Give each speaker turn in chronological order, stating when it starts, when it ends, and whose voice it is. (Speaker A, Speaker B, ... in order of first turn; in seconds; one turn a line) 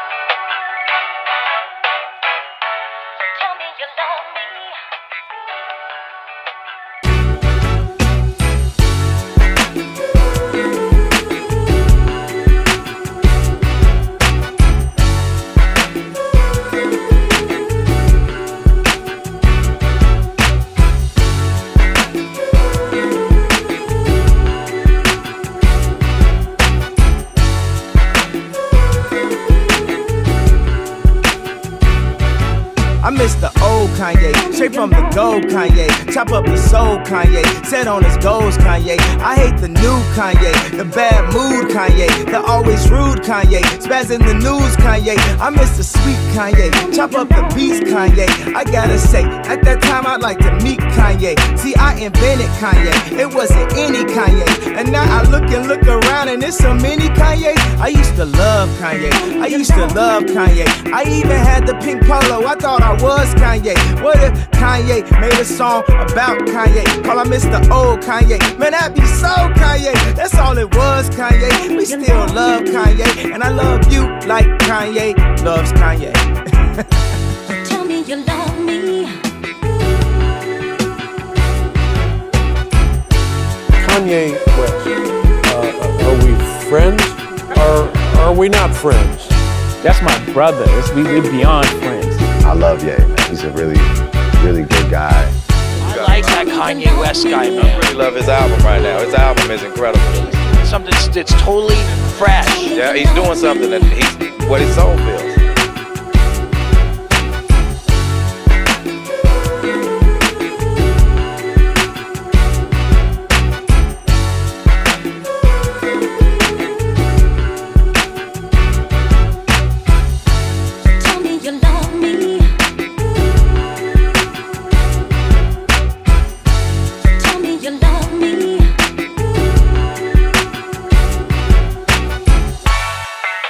Speaker A: 3.6-4.7
Speaker B: 33.0-76.8
Speaker A: 77.7-79.2
Speaker C: 83.8-89.4
Speaker D: 89.8-92.3
Speaker E: 92.4-95.4
Speaker F: 95.8-96.9
Speaker G: 95.8-97.9
Speaker F: 97.6-100.4
Speaker G: 100.3-102.8
Speaker F: 102.6-105.4
Speaker A: 121.0-122.6
Speaker A: 127.3-128.8